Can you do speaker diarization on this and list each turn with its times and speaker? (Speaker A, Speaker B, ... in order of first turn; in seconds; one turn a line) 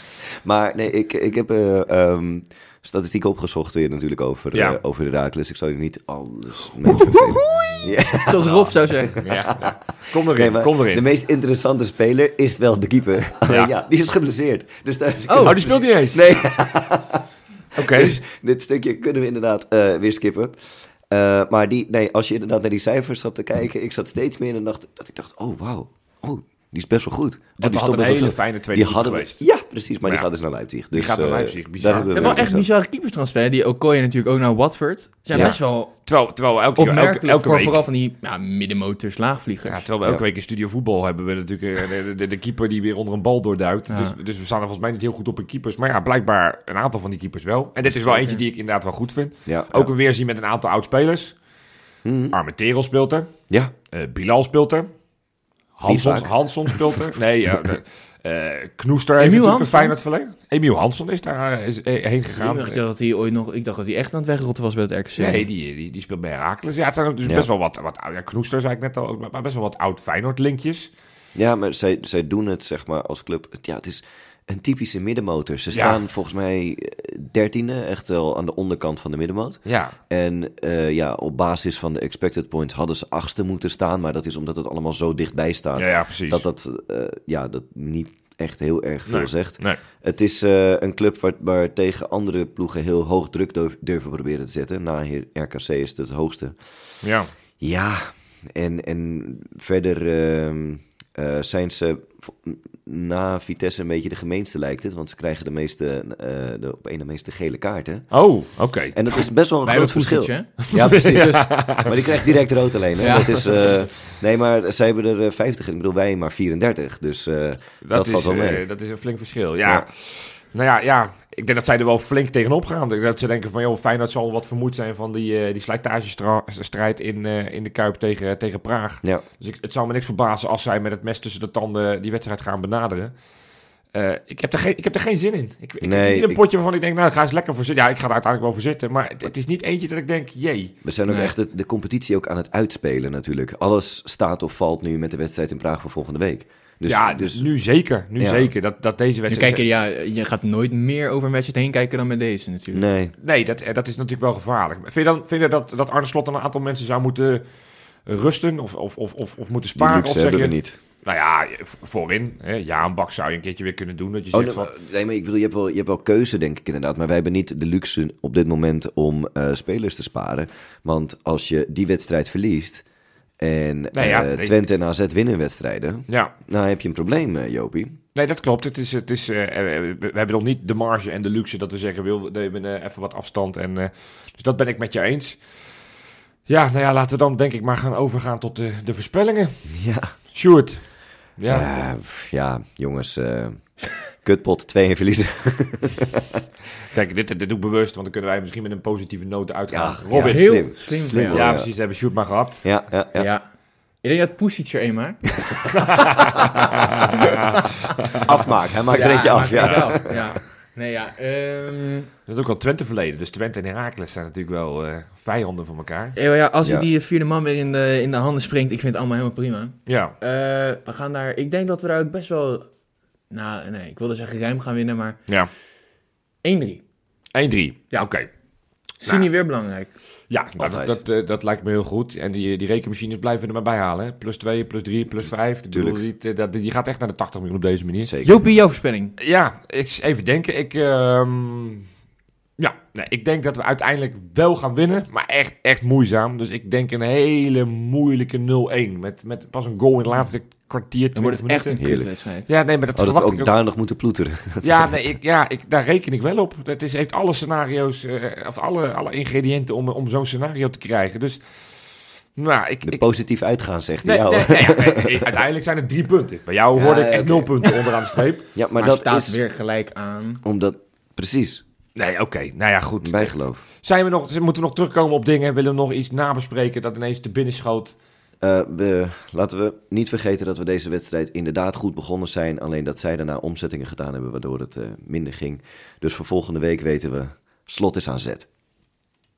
Speaker A: 0.4-9.8
Speaker B: 4.5-4.8
Speaker C: 6.8-9.2
Speaker B: 9.2-11.0
Speaker A: 10.3-17.2
Speaker B: 13.4-13.7
Speaker C: 15.3-15.7
Speaker B: 15.4-16.5
Speaker B: 17.8-18.2
Speaker A: 17.8-32.6
Speaker B: 27.6-29.4
Speaker B: 30.9-32.5
Speaker C: 32.1-35.9
Speaker B: 35.3-37.8
Speaker C: 36.8-39.9
Speaker B: 39.6-51.3
Speaker C: 43.9-44.1
Speaker C: 48.1-48.4
Speaker A: 49.5-49.9
Speaker A: 52.0-52.4
Speaker B: 52.3-53.3
Speaker B: 53.9-54.9
Speaker B: 55.8-62.8
Speaker A: 55.9-56.8
Speaker C: 59.2-59.9
Speaker C: 62.4-65.5
Speaker B: 65.2-70.9
Speaker A: 71.3-96.6
Speaker B: 75.7-76.0
Speaker B: 79.7-79.9
Speaker B: 85.8-86.4
Speaker B: 89.1-89.8
Speaker B: 97.0-97.3
Speaker A: 97.6-108.1
Speaker B: 108.1-109.0
Speaker A: 108.9-118.6
Speaker C: 109.6-111.5
Speaker B: 110.7-112.3
Speaker C: 113.0-113.5
Speaker B: 117.8-133.1
Speaker B: 133.9-140.7
Speaker A: 135.8-136.4
Speaker A: 140.8-147.5
Speaker C: 141.1-141.3
Speaker B: 146.8-149.6
Speaker A: 148.2-148.5
Speaker C: 149.3-152.8
Speaker A: 152.7-153.1
Speaker B: 153.2-157.4
Speaker B: 158.1-164.7
Speaker A: 159.8-160.8
Speaker A: 164.3-172.8
Speaker A: 173.4-178.0
Speaker B: 173.9-174.5
Speaker B: 176.1-176.3
Speaker B: 178.1-185.4
Speaker B: 186.5-189.6
Speaker A: 189.7-190.1
Speaker B: 190.3-190.8
Speaker B: 191.4-191.7
Speaker A: 191.5-196.4
Speaker B: 196.9-200.7
Speaker A: 199.7-201.7
Speaker C: 200.1-201.4
Speaker B: 201.3-202.7
Speaker A: 202.6-203.3
Speaker C: 203.1-203.4
Speaker C: 204.0-206.6
Speaker B: 205.7-208.4
Speaker C: 207.2-207.7
Speaker A: 208.2-210.2
Speaker C: 208.9-212.1
Speaker B: 209.5-210.3
Speaker B: 212.3-216.2
Speaker C: 216.1-222.7
Speaker B: 219.8-220.2
Speaker C: 223.3-225.2
Speaker C: 226.4-226.8
Speaker B: 227.3-228.3
Speaker C: 229.0-229.9
Speaker B: 230.3-238.1
Speaker A: 230.6-231.0
Speaker A: 235.7-236.0
Speaker A: 238.0-238.4
Speaker C: 238.2-239.1
Speaker B: 239.2-241.9
Speaker B: 242.6-251.8
Speaker C: 251.1-252.5
Speaker A: 251.8-252.1
Speaker B: 252.5-253.5
Speaker A: 252.9-254.9
Speaker B: 254.6-261.4
Speaker B: 262.4-263.1
Speaker A: 262.8-265.3
Speaker B: 264.0-268.5
Speaker A: 266.7-267.9
Speaker A: 268.5-269.4
Speaker C: 268.8-270.4
Speaker A: 270.4-271.6
Speaker B: 271.9-277.9
Speaker A: 273.0-273.6
Speaker A: 278.4-288.5